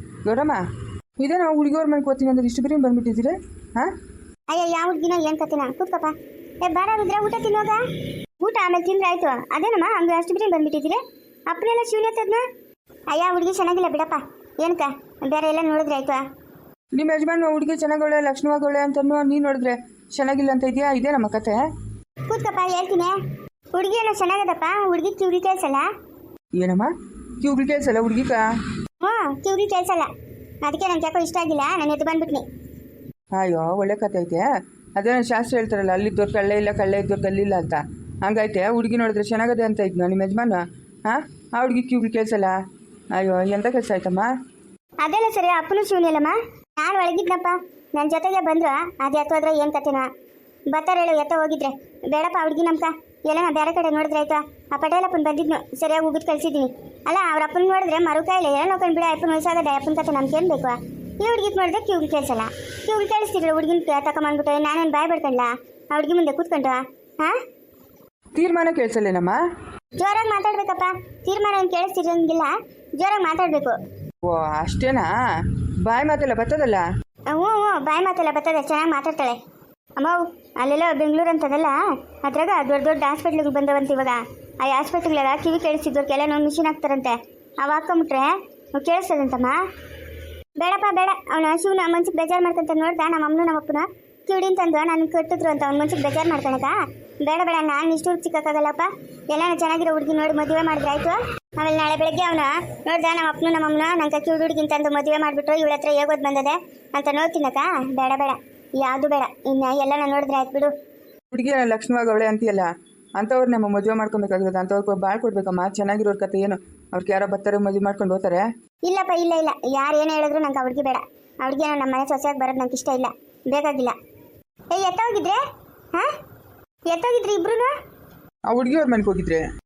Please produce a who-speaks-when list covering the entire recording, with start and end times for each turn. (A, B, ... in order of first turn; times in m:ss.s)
0:00.2-0:00.6 A
0:01.2-0:03.9 A
0:04.5-0:07.8 B
0:08.4-0:12.4 B
0:13.1-0:16.2 B
0:16.9-0:21.6 A
0:22.3-0:23.2 B
0:23.7-0:25.9 B
0:26.6-0:28.5 A
0:29.0-0:30.1 B
0:30.6-0:32.4 B
0:33.3-0:42.5 A
0:43.1-0:44.3 A
0:45.0-0:50.1 B
0:50.7-1:07.3 B
1:08.3-1:09.4 A
1:10.0-1:13.8 B
1:14.2-1:15.1 A
1:15.8-1:16.8 A
1:17.3-1:19.4 B
1:20.0-1:29.6 B
1:30.6-1:50.7 B
1:51.3-1:58.4 A
1:58.8-2:03.9 B
2:04.7-2:05.4 B
2:06.9-2:07.7 B
2:08.5-2:09.4 A